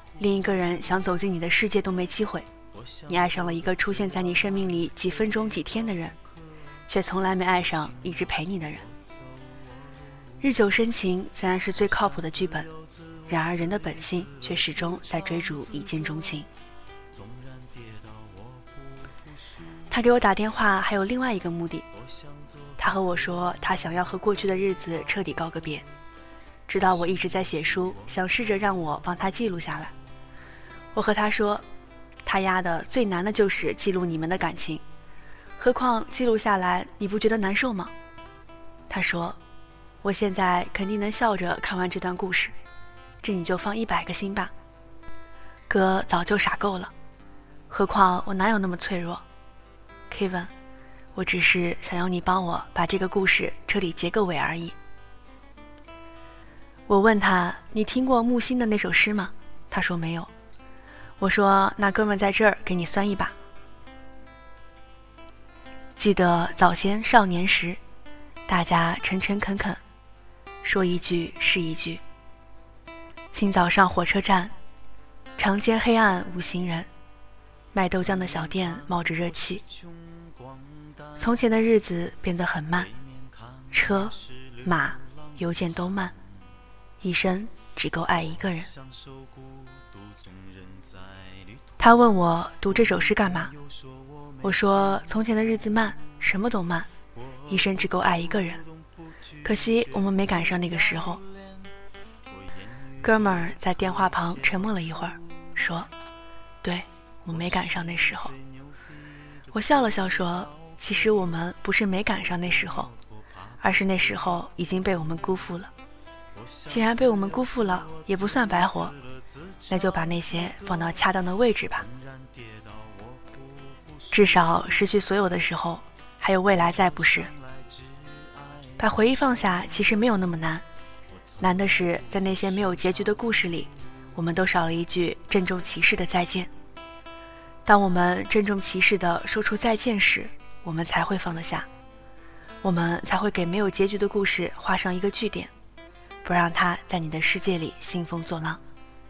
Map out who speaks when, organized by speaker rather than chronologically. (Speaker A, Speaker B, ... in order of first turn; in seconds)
Speaker A: 0.2-2.5, 3.1-6.2, 6.9-8.9, 10.4-12.7, 13.3-16.5, 19.9-21.9, 22.8-25.8, 26.7-29.9, 30.9-31.6, 32.2-34.8, 35.6-37.9, 38.9-39.4, 40.0-42.5, 43.2-44.5, 45.7-46.9, 47.7-49.2, 50.1-50.5, 51.1-54.8, 56.9-60.3, 61.2-63.4, 66.0-67.8, 68.5-69.8, 70.6-72.0, 73.3-74.5, 75.4-76.9, 77.7-79.6, 81.2-82.9, 83.7-86.1, 87.0-88.7, 91.8-93.5, 94.4-96.9, 97.5-98.6, 99.4-101.2, 103.0-105.9, 106.6-108.4, 109.5-112.9, 113.6-115.7, 116.7-119.0, 119.7-121.9, 124.1-127.3, 128.8-130.6, 131.4-136.5, 137.7-141.7, 142.6-145.5, 146.2-148.6